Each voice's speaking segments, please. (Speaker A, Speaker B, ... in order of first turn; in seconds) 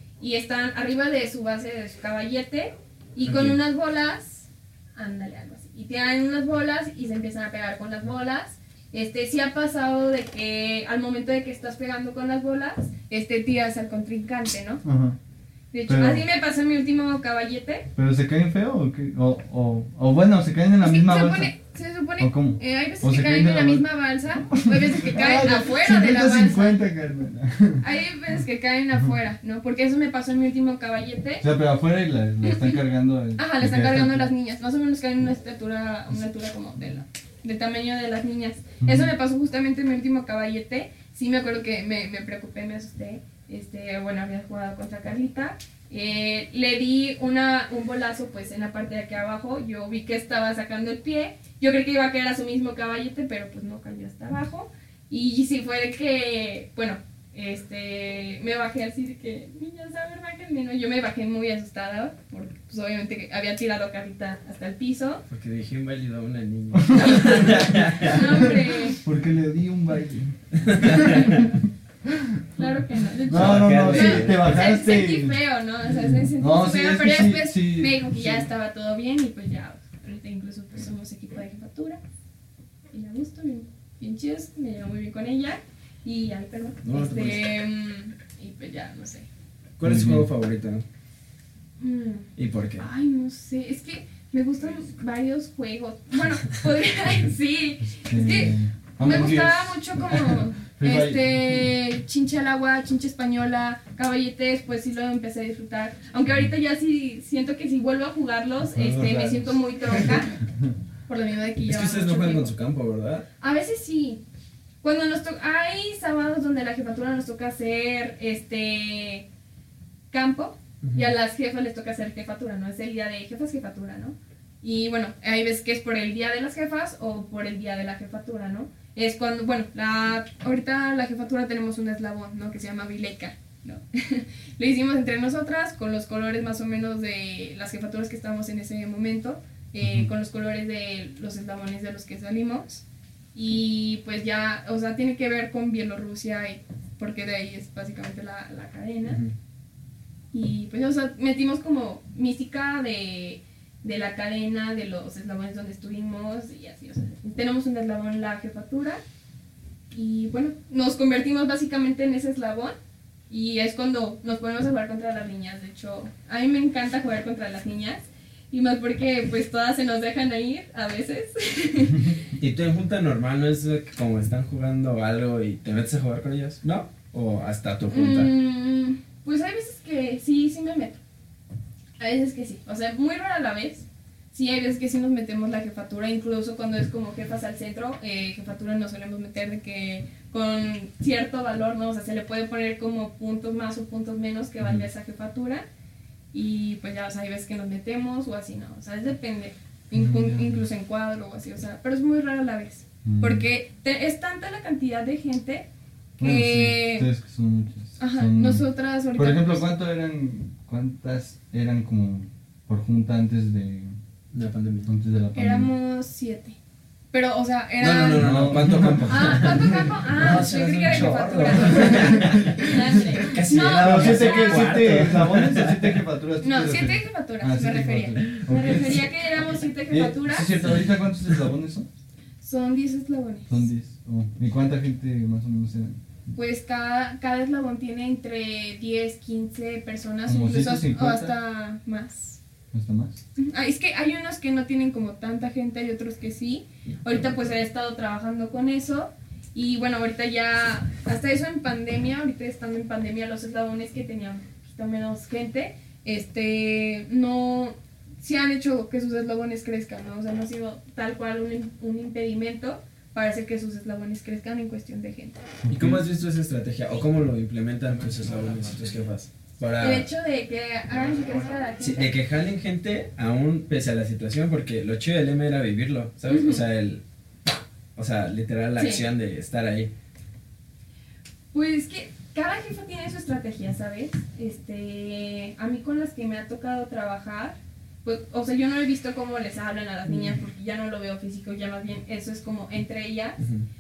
Speaker A: 0.2-14.8, 15.7-17.9, 20.8-26.8, 27.8-31.4, 32.5-32.7, 33.4-65.2, 67.0-69.0, 72.5-82.0, 82.9-89.3, 91.8-110.3, 111.1-112.5, 113.4-114.2, 114.8-119.3, 120.1-142.8, 143.3-149.2, 150.3-159.0, 159.9-162.7, 163.3-172.2, 177.9-181.0, 182.0-195.6, 196.3-205.7, 206.2-207.1, 208.0-209.7, 215.3-216.6, 217.1-218.4, 219.1-224.8, 226.4-230.6, 232.4-233.7, 236.3-242.4, 243.4-265.4, 269.8-272.1, 276.3-276.6, 278.8-279.0, 281.5-293.4
Speaker B: 3.2-3.6, 65.3-68.3, 70.6-71.5, 73.3-74.6, 86.8-87.5, 89.8-90.8, 92.4-92.8, 111.6-113.3, 120.8-121.1, 172.3-178.3, 214.3-214.9, 217.8-226.0, 228.2-228.9, 230.6-231.4, 265.7-270.1, 271.8-279.9, 293.4-293.6
Speaker C: 14.8-15.2, 15.9-16.2, 17.9-21.5, 22.2-23.9, 24.5-27.8, 31.4-34.3, 38.8-39.1, 66.9-71.3, 72.1-72.4, 73.3-75.4, 76.1-78.5, 89.8-90.3, 97.8-101.6, 108.7-110.7, 139.8-140.1, 199.9-200.6, 203.0-203.5, 206.2-208.6, 209.1-213.9, 214.8-215.7, 218.1-220.4, 221.6-229.1, 229.9-231.9, 233.5-236.0, 240.2-241.3, 242.7-243.2, 265.6-266.0